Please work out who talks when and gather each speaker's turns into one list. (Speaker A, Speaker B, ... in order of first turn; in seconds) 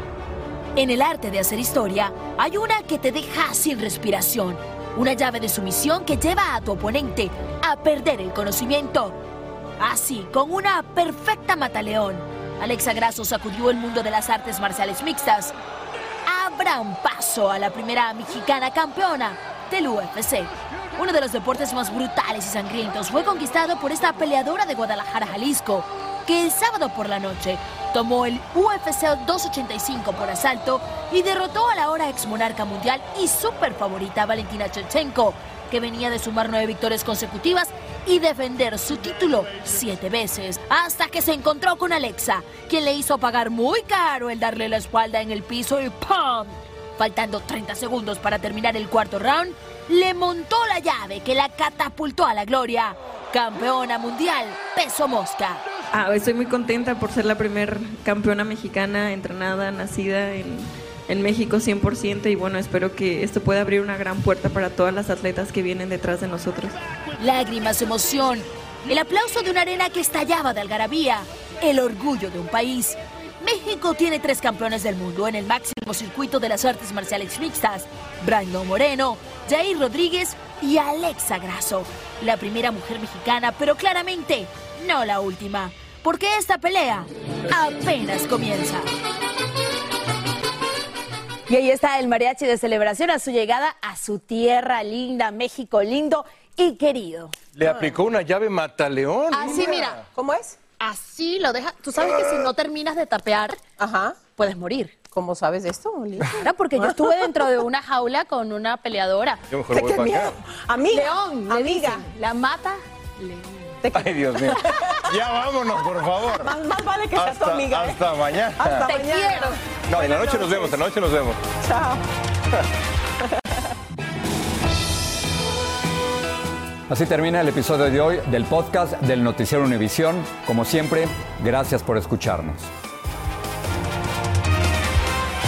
Speaker A: 0.8-9.2, 9.8-15.6, 16.3-55.6, 67.2-88.9
Speaker B: 55.9-66.8
Speaker C: 91.5-97.3, 99.4-99.7, 101.7-103.0, 104.4-104.9, 106.5-109.3, 111.0-112.1, 118.9-119.3
Speaker D: 97.5-100.0, 109.5-110.4, 114.0-116.5, 117.2-119.0, 119.9-121.4
Speaker E: 97.7-98.0, 99.5-100.6, 103.8-104.2, 105.1-107.4, 109.7-112.1, 113.8-115.0, 116.4-118.0, 118.6-120.8, 121.6-122.0
Speaker F: 126.9-132.7